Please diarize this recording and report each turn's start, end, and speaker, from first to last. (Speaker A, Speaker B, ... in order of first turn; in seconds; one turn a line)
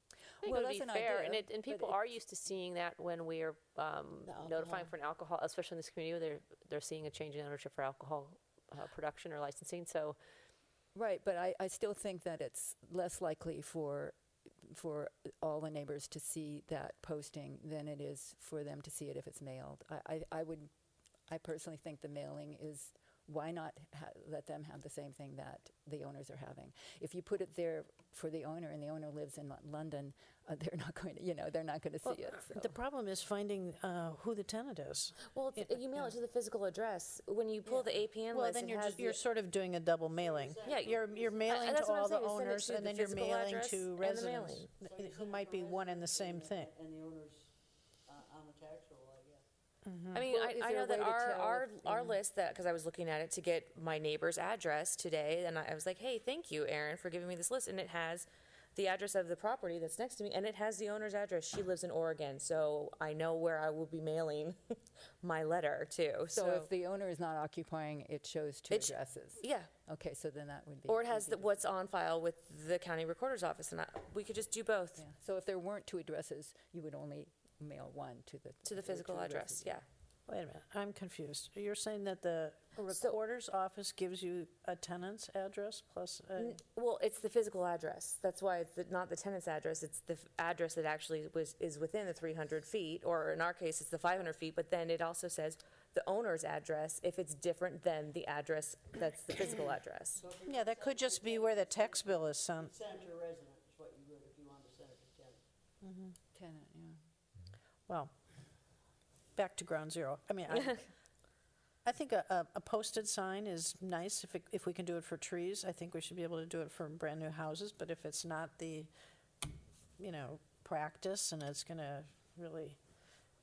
Speaker A: 0.4-1.9
Speaker B: 0.4-10.2
Speaker C: 4.3-4.9
Speaker A: 10.9-20.7
Speaker A: 21.3-32.8
Speaker D: 32.0-36.1
Speaker C: 35.3-39.2
Speaker D: 37.7-46.7
Speaker E: 40.1-41.6
Speaker C: 40.6-40.9
Speaker C: 41.4-44.7
Speaker E: 44.8-47.5
Speaker E: 48.1-49.4
Speaker D: 49.8-50.2
Speaker C: 50.1-64.6
Speaker A: 50.2-52.2
Speaker C: 65.2-66.7
Speaker A: 66.3-71.6
Speaker C: 68.7-69.7
Speaker C: 70.9-75.0
Speaker A: 75.0-79.8
Speaker C: 78.7-79.8
Speaker D: 80.3-86.6
Speaker C: 82.9-83.2
Speaker C: 86.4-100.2
Speaker E: 100.2-105.4
Speaker D: 100.5-102.8
Speaker D: 105.8-106.2
Speaker A: 106.3-107.0
Speaker D: 109.3-110.9
Speaker D: 111.8-118.9
Speaker D: 120.0-122.8